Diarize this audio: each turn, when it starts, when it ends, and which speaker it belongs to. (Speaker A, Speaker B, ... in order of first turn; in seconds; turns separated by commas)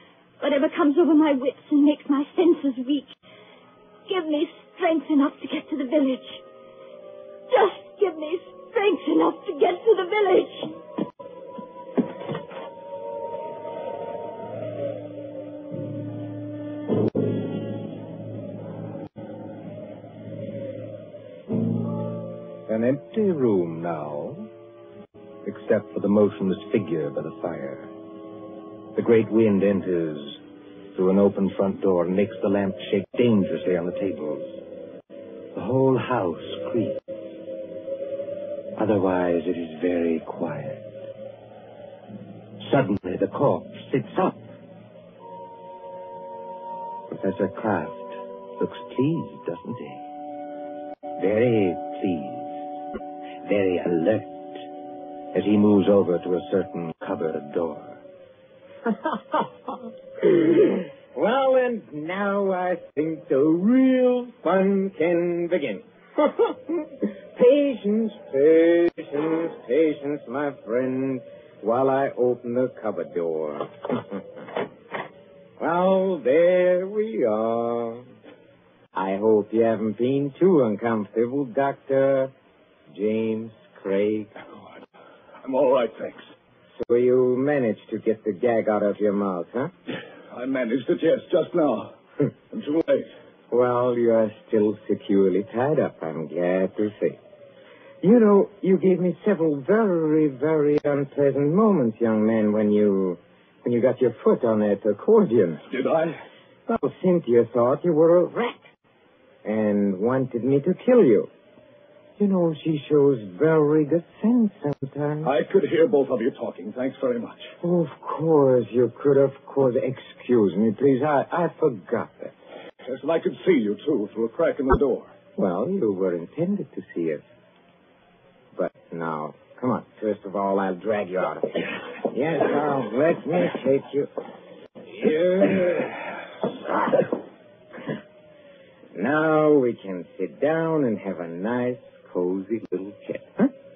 Speaker A: 0.4-3.1, Speaker A: 4.1-6.4, Speaker A: 7.5-10.8, Speaker B: 22.7-24.5, Speaker B: 25.4-27.9, Speaker B: 28.9-30.4, Speaker B: 30.9-34.6, Speaker B: 35.5-37.0, Speaker B: 38.8-40.8, Speaker B: 42.6-44.4, Speaker B: 47.1-50.0, Speaker B: 51.2-52.6, Speaker B: 53.4-54.6, Speaker B: 55.3-58.0, Speaker C: 60.2-74.2, Speaker C: 75.6-78.1, Speaker C: 78.9-82.3, Speaker C: 82.9-84.3, Speaker D: 85.4-86.2, Speaker C: 86.8-89.7, Speaker D: 90.3-91.9, Speaker D: 92.5-93.1, Speaker C: 93.5-97.2, Speaker C: 98.0-105.6, Speaker D: 105.7-106.2, Speaker C: 106.7-108.7, Speaker C: 109.4-111.3, Speaker C: 112.2-115.3, Speaker D: 115.2-117.5, Speaker C: 117.6-122.3, Speaker D: 122.8-125.1, Speaker C: 125.3-127.2, Speaker C: 128.5-134.1, Speaker C: 134.8-136.0, Speaker C: 136.7-137.1, Speaker C: 138.9-143.5